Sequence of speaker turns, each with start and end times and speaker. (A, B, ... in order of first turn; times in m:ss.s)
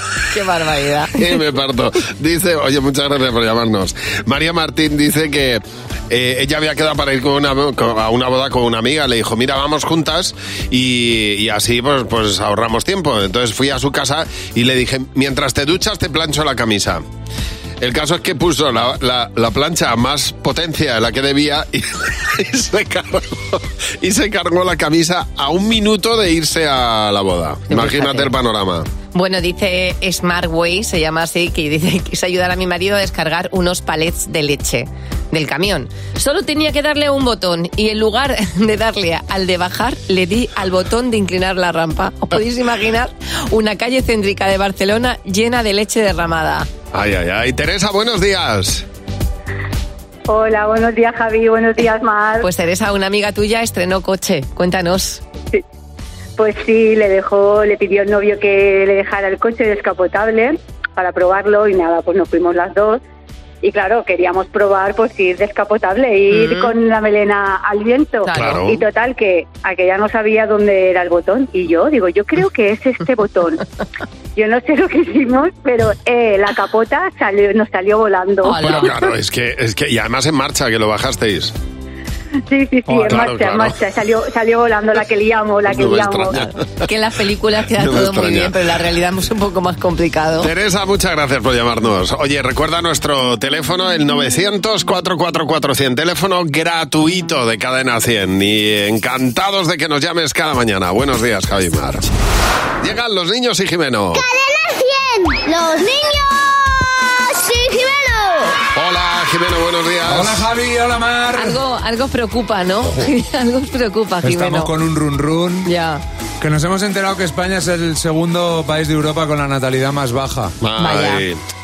0:00.3-0:01.4 A
0:01.2-0:17.0 B
0:17.8-0:28.9 B
0:27.7-0:28.3 A
0:29.1-0:46.7 A
0:46.9-0:48.8 B
0:50.3-0:52.5 C
0:52.4-0:55.2 A
0:56.4-1:03.0 C
1:03.6-1:13.6 C
1:06.3-1:06.8 A
1:08.3-1:08.6 A
1:08.3-1:08.8 B
1:14.4-1:18.7 C
1:18.4-1:19.0 A
1:18.6-1:21.5 B
1:22.5-1:26.4 C
1:22.9-1:23.8 B
1:25.7-1:26.6 B
1:26.8-1:30.5 A
1:27.8-1:28.6 B
1:30.4-1:42.1 B
1:42.8-1:44.2 B
1:44.1-1:48.6 D
1:48.7-1:50.4 B
1:50.1-1:51.6 E
1:51.4-1:54.7 A
1:54.2-1:55.7 E
1:55.6-1:56.0 A
1:56.4-2:00.5 E
2:00.6-2:01.4 B
2:00.8-2:01.2 A